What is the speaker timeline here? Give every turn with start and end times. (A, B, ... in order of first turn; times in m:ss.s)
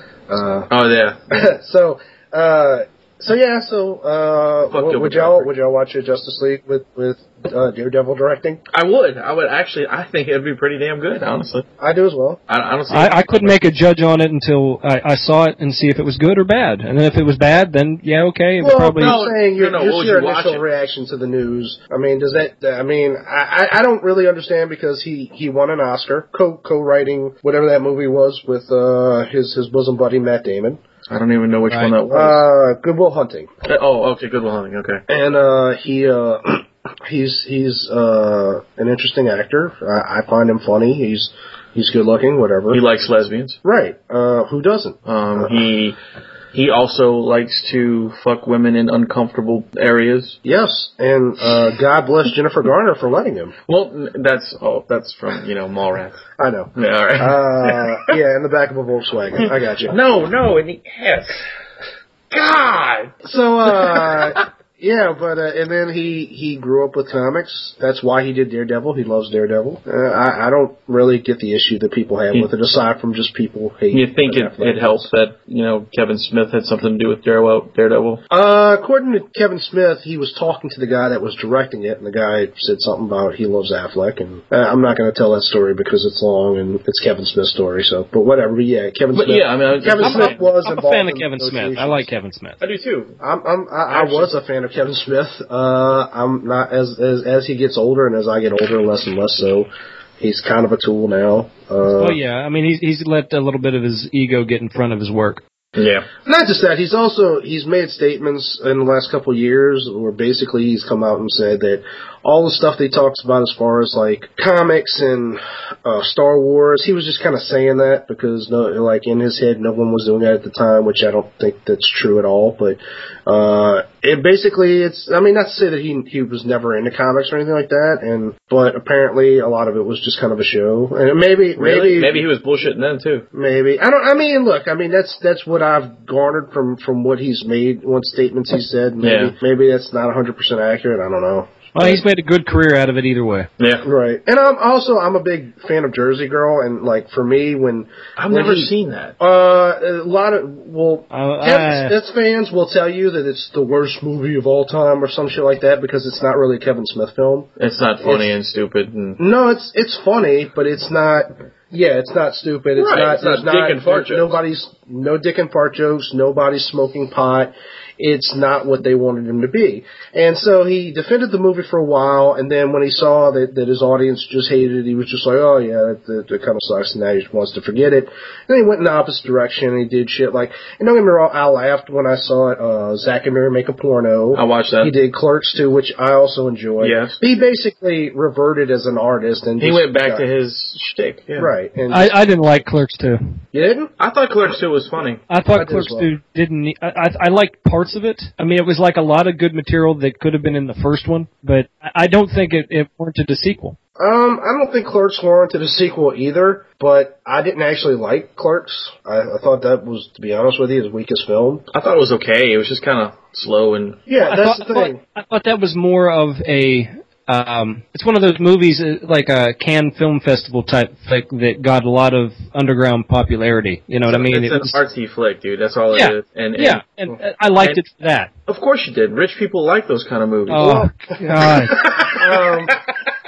0:00.3-0:00.7 A
0:00.7-0:01.4 B
0:01.3-0:08.6 A
0:04.7-0:05.5 B
0:08.7-0:11.7 B
0:11.8-0:12.4 A
0:12.5-0:13.6 B
0:12.9-0:19.2 C
0:18.6-0:30.8 A
0:19.0-0:20.6 B
0:31.1-0:32.4 B
0:32.1-0:33.5 A
0:33.6-0:35.0 B
0:35.1-0:42.8 A
0:42.7-0:43.6 B
0:43.6-0:45.5 A
0:45.1-0:46.0 B
0:46.5-0:50.4 B
0:50.4-0:53.5 A
0:53.7-0:56.2 B
0:56.4-1:00.0 A
0:56.8-0:58.1 B
0:59.9-1:01.4 B
1:02.3-1:03.1 B
1:03.2-1:15.1 A
1:03.8-1:04.3 B
1:13.9-1:18.2 B
1:18.3-1:32.1 A
1:29.1-1:30.4 B
1:30.0-1:32.6 C
1:32.6-1:33.2 B
1:33.2-1:42.2 A
1:33.9-1:34.3 B
1:42.0-1:45.4 C
1:45.8-1:46.1 B
1:46.2-2:12.3 A
2:11.6-2:13.3 B
2:13.3-2:22.0 A
2:19.0-2:19.3 B
2:21.8-2:23.5 C
2:23.6-2:23.8 B
2:23.8-2:37.5 A
2:28.2-2:29.2 B
2:31.1-2:32.0 C
2:37.6-2:39.2 B
2:38.0-2:38.4 A
2:39.2-3:10.2 A
2:42.8-2:44.4 B
3:04.3-3:04.9 B
3:06.8-3:07.2 B
3:09.6-3:11.5 B
3:11.4-3:12.2 A
3:11.9-3:13.2 C
3:13.5-3:13.9 A
3:14.0-3:15.2 B
3:15.3-3:23.8 C
3:15.5-3:16.1 A
3:24.0-3:31.6 A
3:31.7-3:34.0 B
3:34.1-3:35.0 A
3:34.2-3:44.8 C
3:44.1-3:46.8 B
3:45.9-3:48.3 C
3:48.5-3:50.9 B
3:50.5-3:51.8 C
3:51.7-3:52.8 B
3:51.7-3:52.8 A